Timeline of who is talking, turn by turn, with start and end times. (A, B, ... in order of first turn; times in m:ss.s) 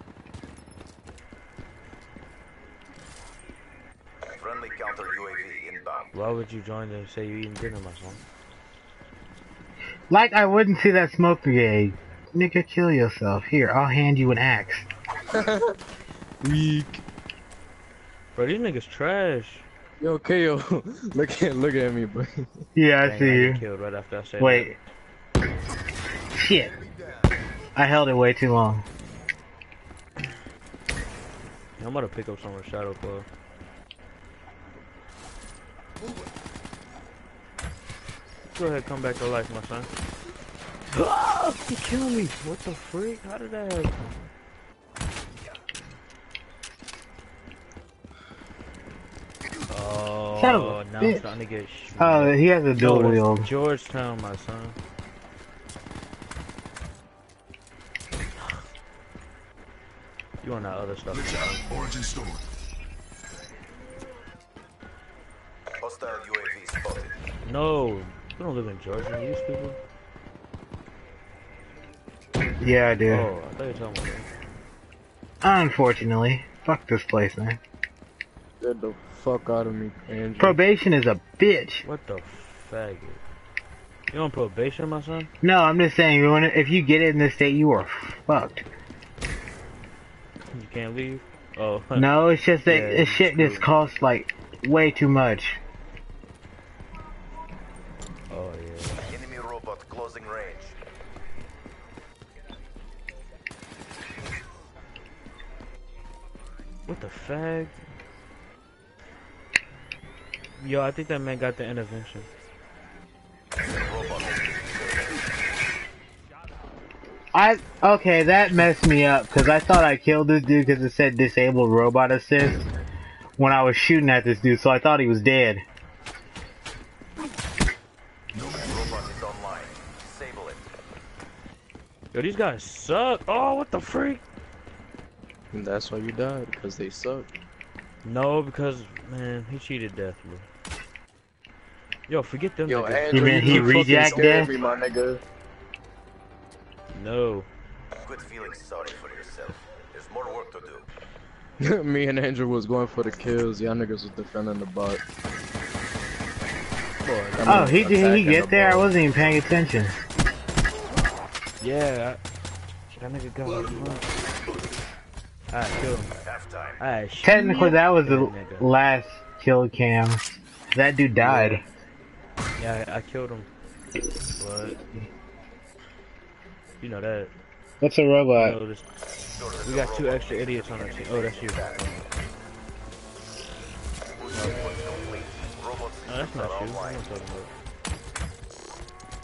0:04.4-0:06.1 A
0:06.1-0:08.2 B
0:10.1-0:14.8 C
0:15.3-0:15.7 D
0:16.4-0:17.0 D
0:18.4-0:19.7 B
0:20.0-0:22.6 D
0:22.8-0:23.6 C
0:23.0-0:24.8 B
0:24.4-0:24.8 C
0:26.4-0:26.7 C
0:26.8-0:27.3 E
0:27.8-0:28.8 C
0:31.8-0:33.3 B
0:38.6-0:39.9 B
0:40.9-0:44.1 B
0:49.7-0:54.8 B
0:50.4-0:51.2 C
0:52.0-0:53.5 C
1:00.4-1:01.6 B
1:01.1-1:02.5 E
1:05.8-1:07.2 A
1:07.4-1:09.8 B
1:12.6-1:13.3 C
1:13.1-1:14.3 B
1:15.4-1:17.6 C
1:18.6-1:20.6 D
1:20.4-1:21.8 C
1:21.8-1:23.2 B
1:24.1-1:25.3 B
1:25.4-1:28.7 C
1:30.5-1:32.1 B
1:32.0-1:35.6 C
1:32.7-1:33.6 B
1:38.3-1:39.0 B
1:39.1-1:40.8 A
1:46.9-1:47.8 B
1:50.6-1:52.3 B
1:53.6-1:55.2 A
1:57.3-2:02.6 C
2:03.4-2:05.6 C
2:08.4-2:10.7 A
2:12.1-2:14.2 B
2:15.5-2:17.3 D
2:18.0-2:20.5 B
2:22.1-2:24.0 B
2:22.7-2:25.2 D
2:23.1-2:24.5 C
2:23.8-2:24.9 A
2:26.9-2:27.5 B
2:28.0-2:30.9 A
2:31.6-2:35.0 D
2:37.0-2:37.9 B
2:37.3-2:38.9 D
2:37.4-2:40.0 C
2:41.6-2:42.2 B
2:42.9-2:44.1 B
2:45.5-2:46.1 B
2:46.2-2:46.8 A
2:46.8-2:48.7 B
2:47.2-2:51.6 C
2:51.2-2:51.6 B
2:52.6-2:53.5 B
2:54.4-2:54.8 B
2:56.8-2:57.3 B
2:57.8-2:58.6 C
2:58.4-2:58.9 B
2:59.2-3:02.1 A
2:59.6-3:02.1 B
3:04.2-3:07.1 A
3:06.1-3:07.5 B